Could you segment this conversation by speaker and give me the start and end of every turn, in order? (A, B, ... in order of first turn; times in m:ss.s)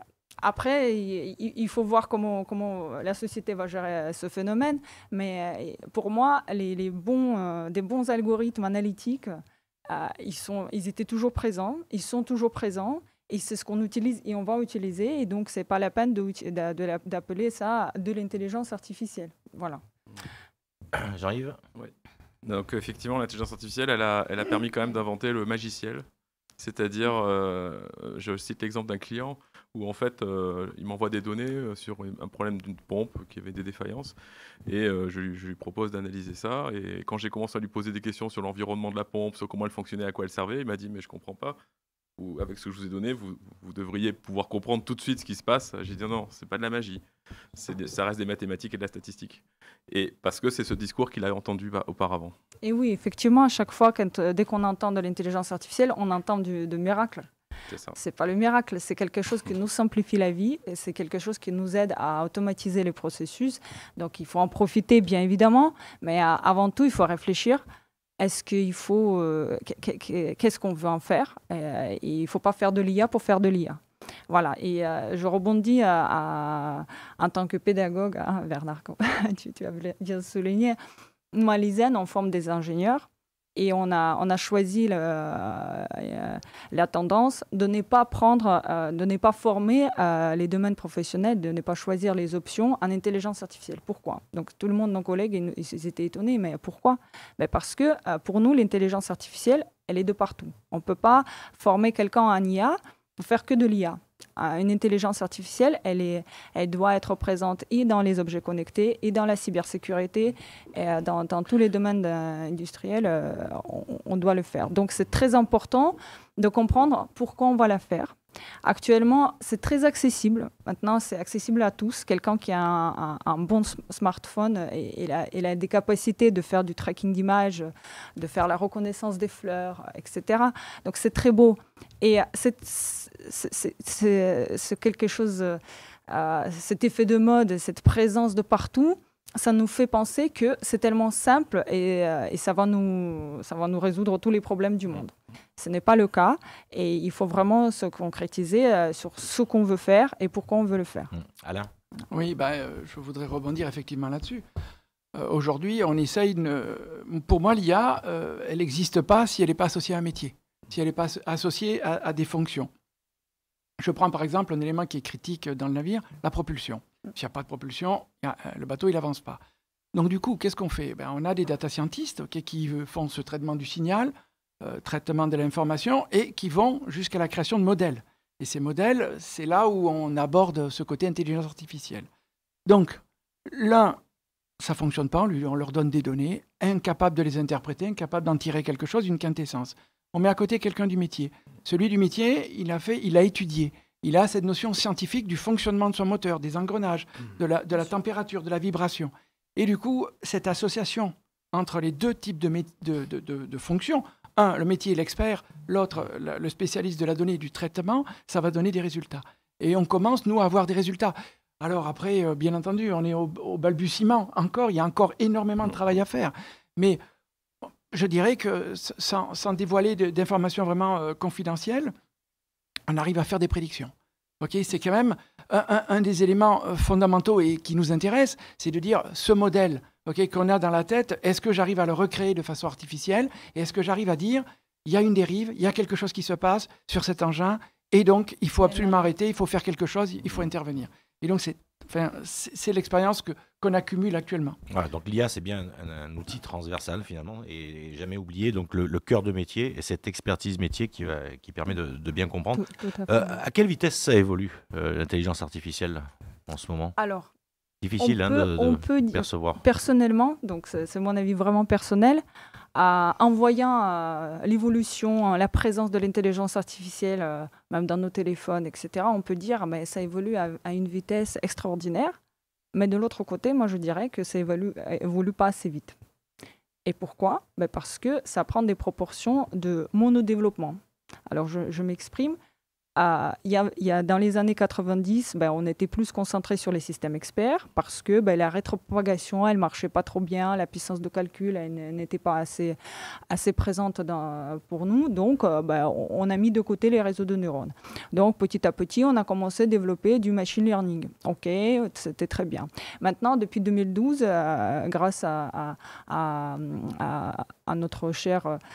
0:00.4-0:19.8 A
0:20.9-0:21.6 B
0:21.8-0:26.0 C
0:26.6-0:34.1 C
0:34.6-0:41.6 C
0:42.2-0:47.0 C
0:47.5-0:52.3 C
0:52.6-0:57.3 A
0:57.7-0:58.0 C
0:58.0-1:07.6 A
1:08.2-1:20.8 A
1:21.3-2:31.1 A
2:31.1-2:31.7 B
2:32.1-2:34.4 D
2:35.1-2:42.7 D
2:43.8-2:49.4 D
2:49.9-3:02.1 D
3:02.6-3:04.0 D
3:04.6-3:37.0 D
3:37.9-3:41.9 D
3:42.9-4:04.6 D
3:58.6-3:59.1 A
4:04.7-4:17.0 B
4:12.6-4:13.4 A
4:17.0-4:17.3 A
4:17.8-4:19.6 B
4:18.0-4:22.2 A
4:22.7-4:32.2 A
4:32.7-4:36.0 A
4:36.8-4:42.4 A
4:43.0-4:52.8 A
4:53.3-5:08.6 A